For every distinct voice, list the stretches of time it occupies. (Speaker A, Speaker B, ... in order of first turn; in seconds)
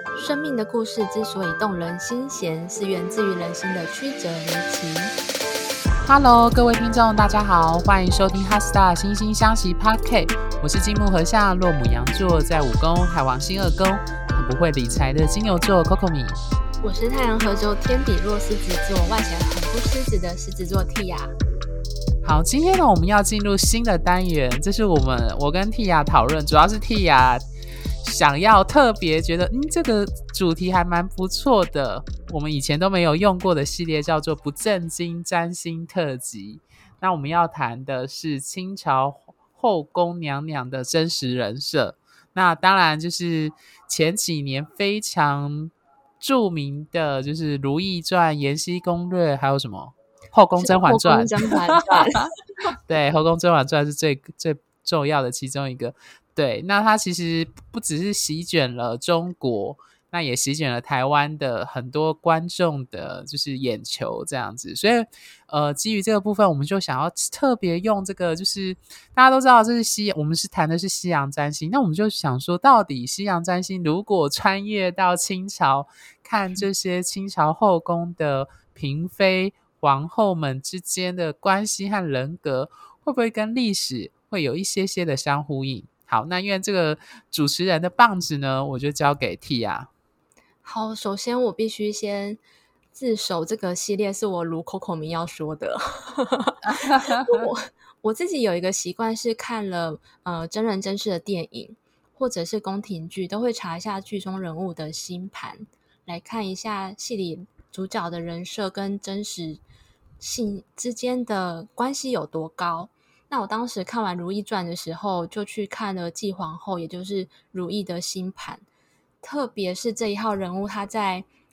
Speaker A: 0.1-5.1, 16.8-21.3, 50.5-52.3, 90.6-92.4, 92.9-109.6, 110.2-118.6, 119.2-121.2
Speaker B: 6.0-16.4, 22.2-27.4, 28.0-52.0, 52.9-89.9, 96.6-97.5